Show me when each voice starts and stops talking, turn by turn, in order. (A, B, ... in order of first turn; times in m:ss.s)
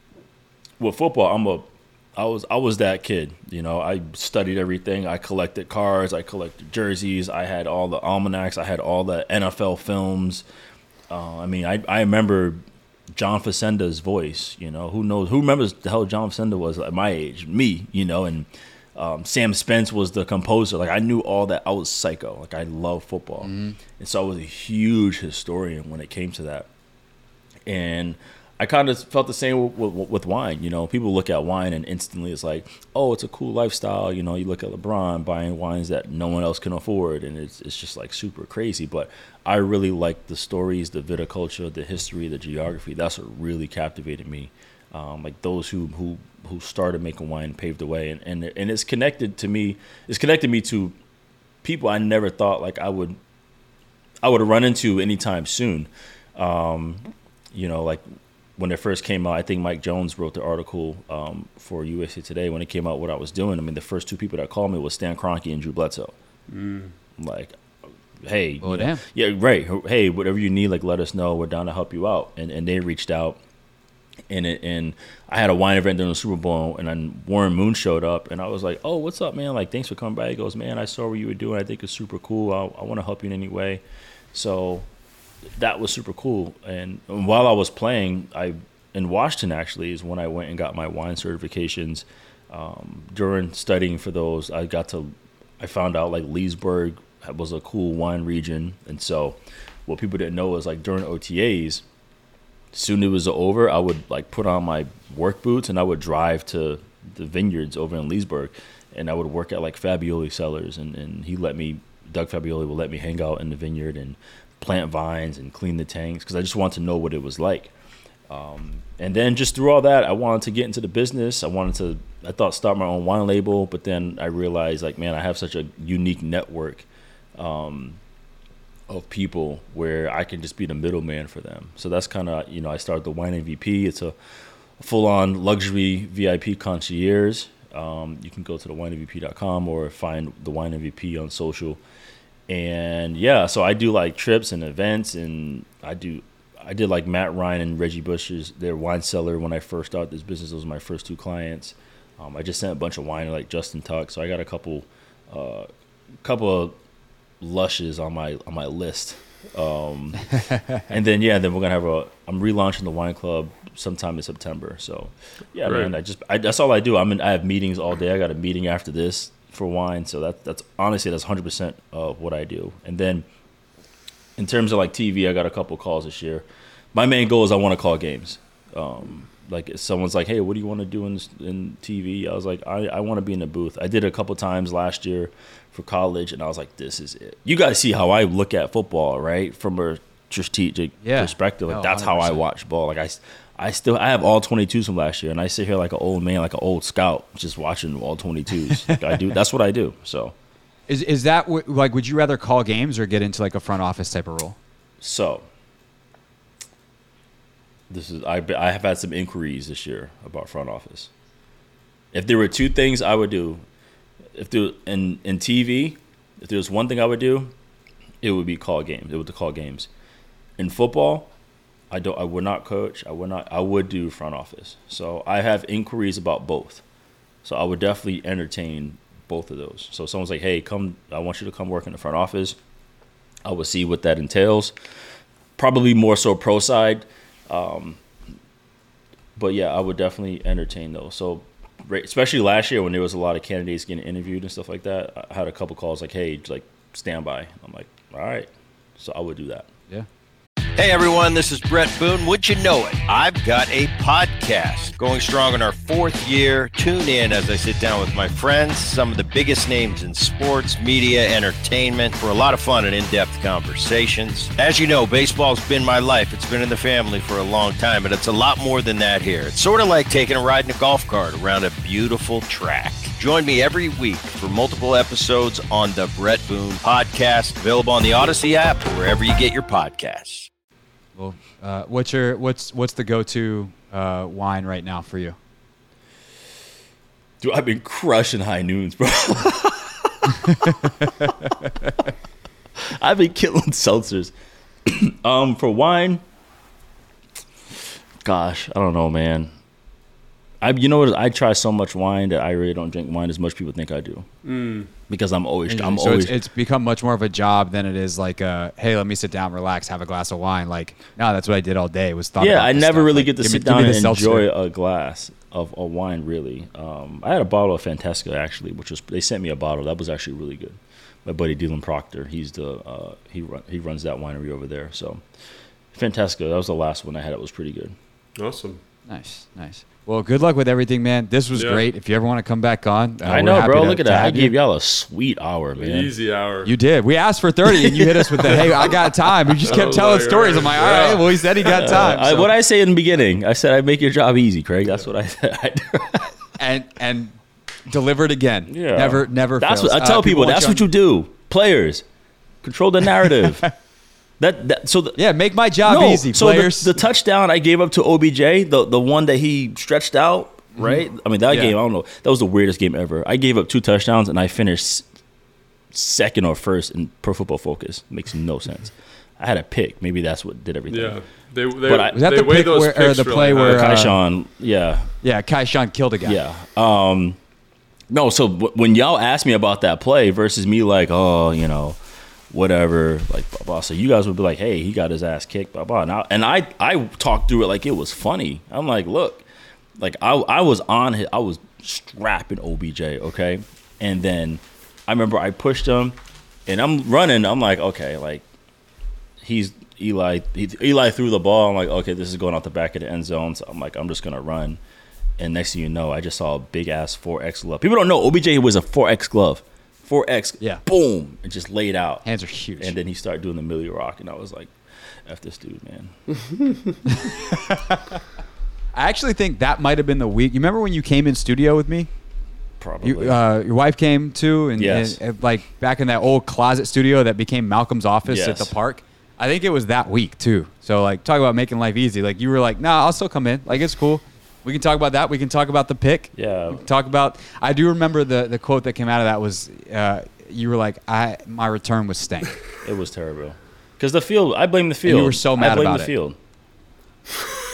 0:00.8-0:10.4 A
0:11.1-0:12.6 A
0:13.1-0:26.7 A
0:23.4-0:23.8 B
0:27.6-0:50.9 A
0:51.6-0:53.2 A
0:54.2-0:58.0 A
0:58.6-1:06.1 A
1:06.5-1:06.9 C
1:07.2-1:07.6 A
1:08.2-1:13.4 A
1:08.6-1:09.0 B
1:14.3-1:23.8 A
1:24.3-1:24.9 A
1:25.6-1:41.8 A
1:42.7-1:57.7 A
1:58.3-2:08.0 A
2:08.9-2:14.1 A
2:14.8-2:21.8 A
2:22.5-2:35.7 A
2:36.2-2:36.8 A
2:37.4-2:40.3 A
2:40.8-2:53.2 A
2:45.6-2:45.9 C
2:54.4-3:20.3 A
3:11.0-3:12.4 B
3:20.9-3:24.6 B
3:25.0-3:25.4 A
3:27.9-3:31.1 A
3:32.1-3:33.6 A
3:34.4-3:37.5 A
3:38.2-3:39.9 A
3:40.6-3:41.3 A
3:41.9-3:46.8 A
3:47.4-3:52.6 A
3:53.4-3:54.7 A
3:55.6-3:58.0 A
3:59.4-4:09.7 A
4:10.8-4:40.5 D
4:41.2-4:45.4 B
4:47.4-4:50.7 A
4:52.8-4:54.3 A
4:54.8-4:56.2 A
4:58.2-4:59.5 A
5:00.6-5:04.2 A
5:04.4-5:04.9 C
5:05.1-5:06.4 A
5:05.7-5:14.5 B
5:12.4-5:25.2 A
5:25.9-5:27.9 A
5:28.4-5:28.8 C
5:29.1-5:34.5 B
5:31.5-5:31.8 C
5:33.2-5:36.1 A
5:35.7-5:36.7 C
5:36.6-5:42.5 B
5:38.5-5:38.9 C
5:39.6-5:41.8 C
5:41.6-5:46.3 A
5:46.6-5:47.4 B
5:47.9-5:50.9 B
5:48.7-5:52.0 A
5:52.6-5:53.6 A
5:54.4-5:55.2 A
5:55.2-5:57.0 B
5:55.8-6:05.0 A
6:00.8-6:01.8 B
6:05.9-6:11.2 A
6:10.9-6:13.9 C
6:11.8-6:12.2 A
6:12.1-6:14.2 B
6:13.5-6:15.1 A
6:15.2-6:16.4 B
6:16.2-6:17.4 A
6:18.1-6:22.0 A
6:22.5-6:29.5 A
6:30.0-6:38.4 A
6:39.4-6:44.8 A
6:45.4-6:54.7 A
6:52.2-6:53.0 B
6:55.2-6:56.1 A
6:58.9-7:02.1 B
7:02.8-7:03.4 A
7:03.0-7:22.6 B
7:04.8-7:05.2 A
7:08.3-7:08.7 A
7:16.3-7:16.8 A
7:22.8-7:26.4 A
7:25.0-7:26.1 B